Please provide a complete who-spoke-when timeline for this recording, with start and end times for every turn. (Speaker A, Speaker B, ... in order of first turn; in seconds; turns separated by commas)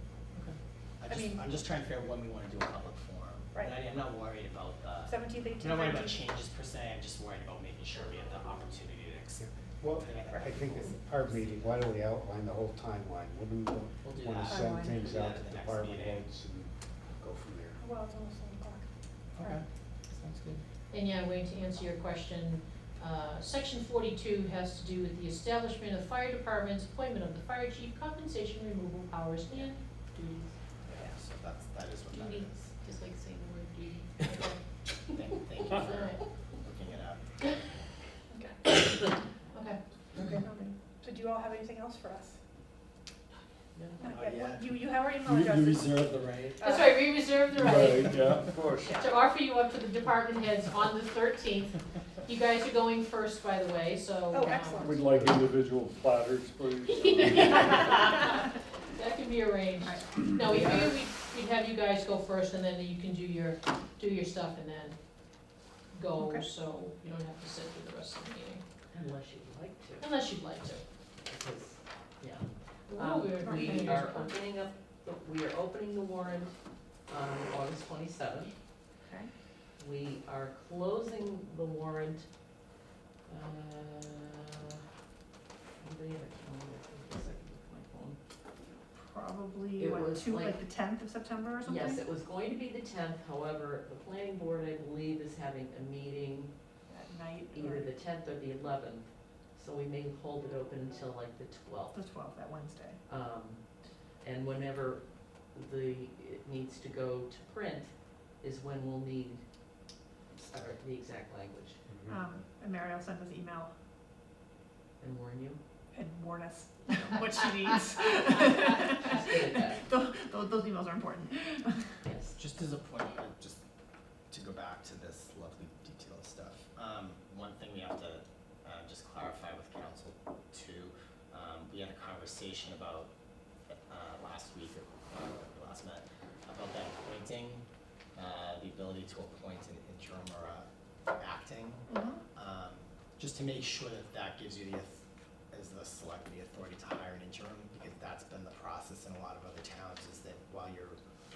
Speaker A: 1.0-12.0, Speaker B: 1.1-1.4, Speaker B: 5.0-6.2, Speaker C: 9.4-17.8, Speaker A: 14.0-16.3, Speaker B: 14.4-15.1, Speaker B: 17.8-18.9, Speaker A: 19.4-19.6, Speaker D: 20.1-20.6, Speaker E: 20.9-30.5, Speaker A: 30.8-32.8, Speaker E: 32.1-34.6, Speaker A: 35.1-37.2, Speaker E: 35.1-36.2, Speaker B: 38.3-38.6, Speaker E: 39.5-39.8, Speaker B: 40.3-42.4, Speaker D: 43.8-44.1, Speaker B: 44.0-47.1, Speaker A: 44.1-44.8, Speaker F: 45.2-46.6, Speaker E: 46.6-55.0, Speaker F: 47.5-49.1, Speaker B: 54.3-55.1, Speaker F: 54.8-58.1, Speaker E: 56.9-65.0, Speaker B: 59.8-60.2, Speaker D: 60.5-60.9, Speaker E: 65.9-68.6, Speaker B: 66.2-66.5, Speaker D: 68.9-70.1, Speaker E: 70.0-70.8, Speaker D: 71.3-76.6, Speaker E: 72.9-74.3, Speaker B: 73.4-74.2, Speaker D: 77.1-78.5, Speaker B: 79.0-79.3, Speaker D: 79.8-82.3, Speaker D: 83.3-84.8, Speaker D: 85.8-88.2, Speaker B: 88.9-92.0, Speaker D: 89.8-90.6, Speaker D: 91.7-96.5, Speaker B: 96.9-97.9, Speaker D: 97.5-102.0, Speaker B: 101.9-103.0, Speaker D: 103.1-103.6, Speaker D: 104.2-109.4, Speaker D: 110.3-111.8, Speaker C: 111.9-112.2, Speaker B: 112.1-113.7, Speaker D: 115.0-115.6, Speaker B: 115.9-121.9, Speaker D: 118.3-119.8, Speaker D: 122.0-122.4, Speaker A: 122.4-123.6, Speaker A: 124.3-133.1, Speaker A: 133.7-137.6, Speaker A: 138.2-151.0, Speaker B: 141.9-142.2